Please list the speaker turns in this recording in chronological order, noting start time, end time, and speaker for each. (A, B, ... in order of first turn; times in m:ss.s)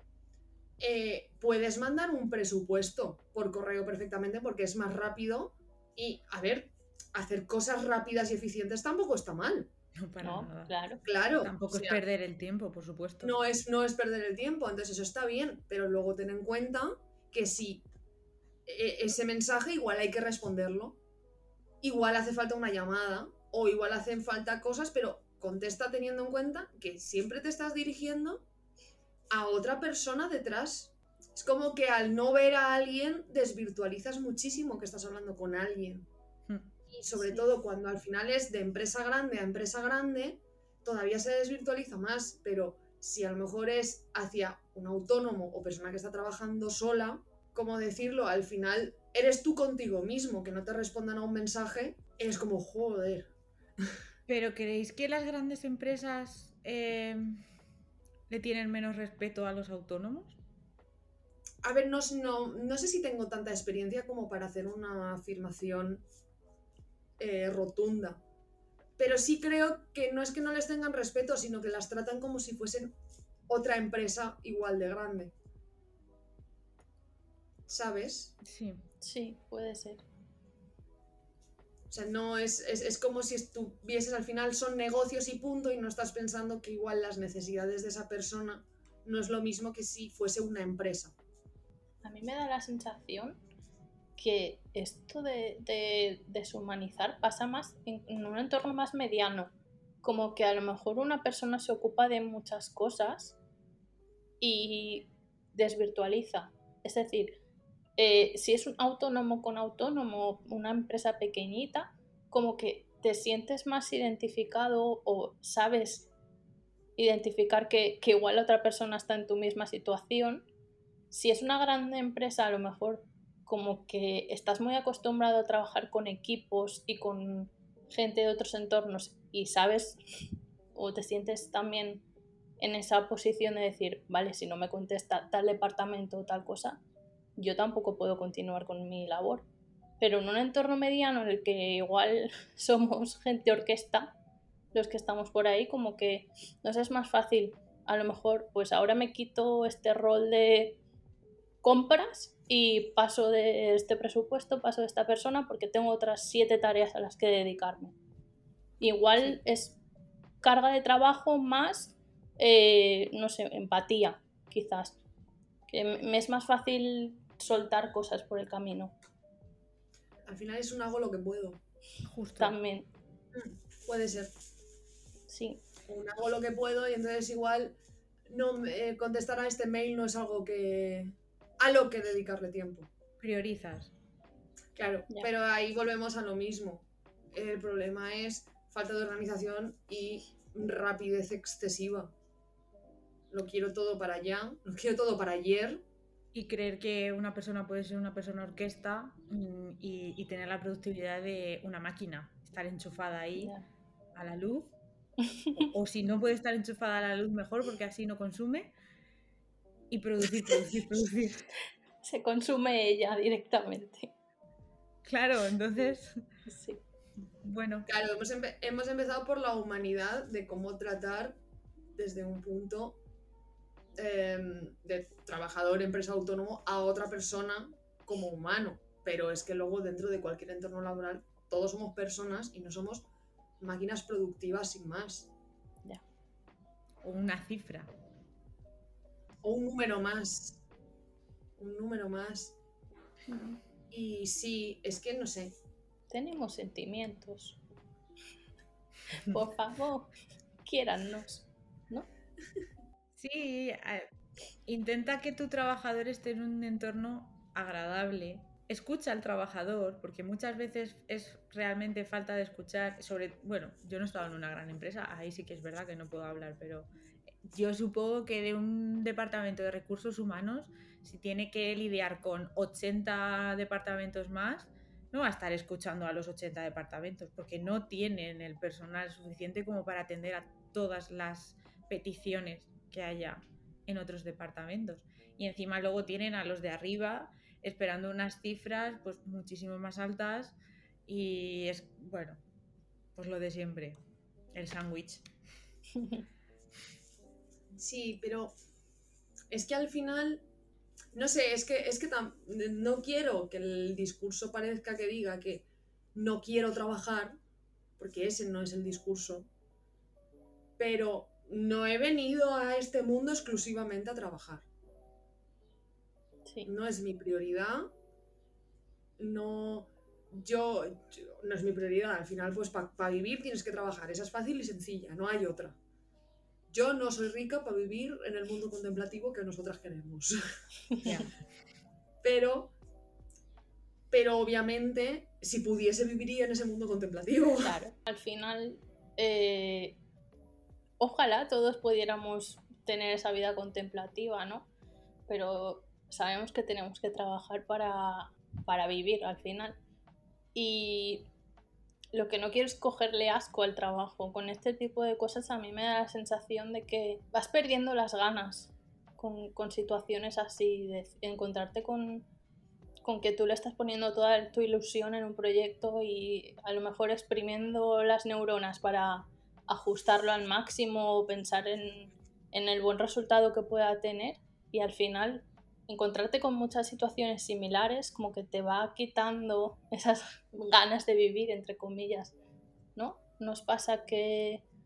0:00.8-0:09.7 A
0:10.0-0:10.7 B
0:10.2-0:11.0 C
0:11.0-0:12.0 A
0:11.4-0:13.4 B
0:13.2-0:17.8 A
0:18.7-0:21.0 A
0:21.8-0:28.4 A
0:29.3-0:36.1 A
0:36.9-0:53.3 A
0:54.3-0:57.4 B
0:58.3-1:00.4 B
1:01.6-1:06.0 A
1:07.2-1:08.2 A
1:09.0-1:12.9 A
1:13.5-1:15.3 A
1:17.7-1:18.3 A
1:18.4-1:18.8 B
1:19.0-1:20.0 C
1:21.9-1:31.1 A
1:32.0-1:33.4 C
1:34.2-1:39.5 C
1:40.0-1:43.4 C
1:44.4-1:47.4 C
1:48.0-1:56.1 C
1:57.0-2:00.5 C
2:01.1-2:12.0 C
2:12.6-2:16.8 C
2:17.4-2:19.5 C
2:20.0-2:24.1 C
2:24.7-2:30.8 C
2:31.6-2:38.0 C
2:38.8-2:39.8 C
2:40.4-2:45.0 C
2:45.7-2:49.0 C
2:50.3-2:51.6 A
2:52.1-2:52.6 B
2:52.4-2:52.9 C
2:53.3-2:54.3 A
2:55.3-2:55.6 C
2:55.9-2:57.8 A
2:58.3-3:02.9 A
3:03.2-3:03.9 B
3:04.8-3:12.1 A
3:13.3-3:15.8 A
3:16.3-3:23.5 B
3:23.4-3:23.6 C
3:24.2-3:24.7 B
3:25.3-3:25.7 C
3:25.6-3:28.7 B
3:29.9-3:31.5 B
3:32.0-3:34.1 C
3:35.0-3:36.2 B
3:36.5-3:36.8 C
3:37.4-3:37.9 B
3:37.9-3:41.4 A
3:41.9-3:43.0 A
3:44.0-3:53.1 A
3:53.6-3:55.3 A
3:57.0-3:57.9 B
3:59.4-4:00.6 A
4:01.6-4:02.6 A
4:03.3-4:03.6 C
4:03.9-4:05.6 A
4:06.1-4:07.6 C
4:09.2-4:10.1 C
4:10.7-4:12.1 C
4:13.2-4:14.1 B
4:14.7-4:26.9 B
4:27.4-4:50.6 B
4:51.1-4:52.4 B
4:53.2-4:54.0 B
4:54.5-4:55.2 B
4:57.7-4:58.5 A
4:59.5-5:00.4 A
5:01.1-5:07.4 A
5:08.0-5:09.5 A
5:10.8-5:14.7 A
5:16.6-5:17.9 A
5:19.2-5:25.8 A
5:26.7-5:30.4 A
5:32.2-5:32.7 A
5:34.1-5:37.8 A
5:37.6-5:40.0 C
5:41.0-5:44.7 C
5:45.3-5:49.8 C
5:50.6-5:51.3 C
5:52.1-6:02.3 C
6:03.0-6:22.3 C
6:23.0-6:24.6 C